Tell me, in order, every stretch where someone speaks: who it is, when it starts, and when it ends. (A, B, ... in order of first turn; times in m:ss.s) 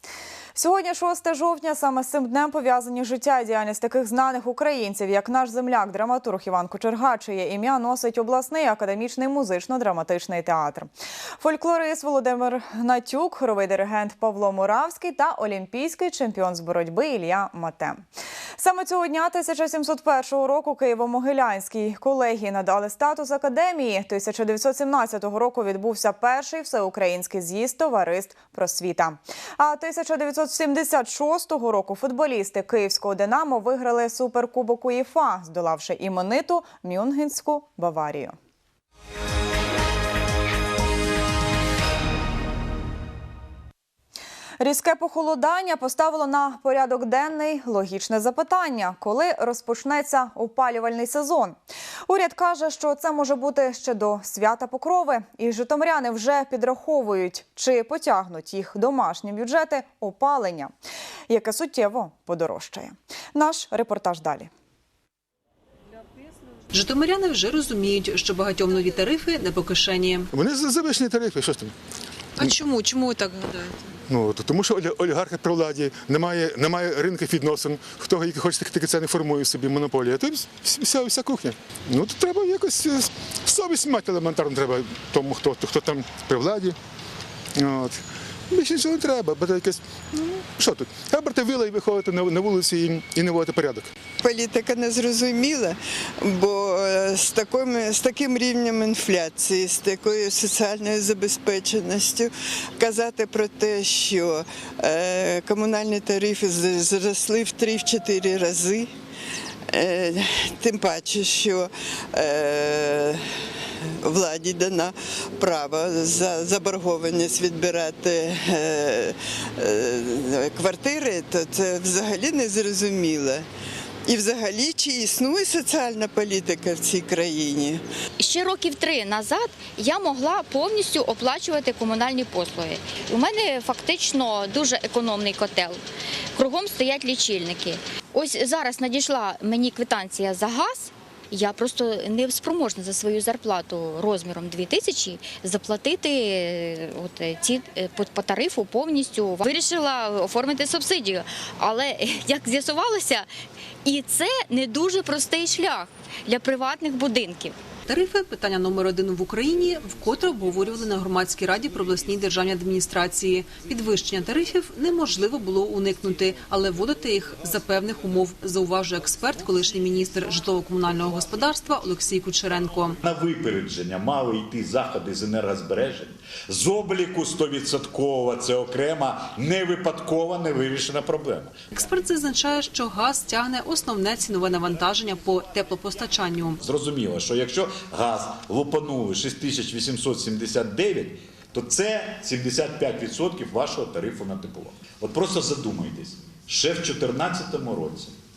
0:00.6-0:10.9 A
0:11.4-0:18.0 A
0:18.6-0:38.4 A
0:44.6-1:00.7 A
1:01.3-1:04.5 A
1:06.7-1:10.3 B
1:10.3-1:11.7 C
1:14.1-1:26.8 C
1:27.6-1:29.8 C
1:30.5-1:33.9 C
1:34.2-1:48.9 D
1:49.7-1:53.2 D
1:54.0-2:03.5 D
2:04.1-2:07.8 D
2:08.2-2:15.8 E
2:16.4-2:33.3 E
2:33.8-2:37.6 E
2:37.9-2:53.0 B
2:53.0-3:01.5 F
3:01.7-3:06.6 B
3:06.6-3:18.2 F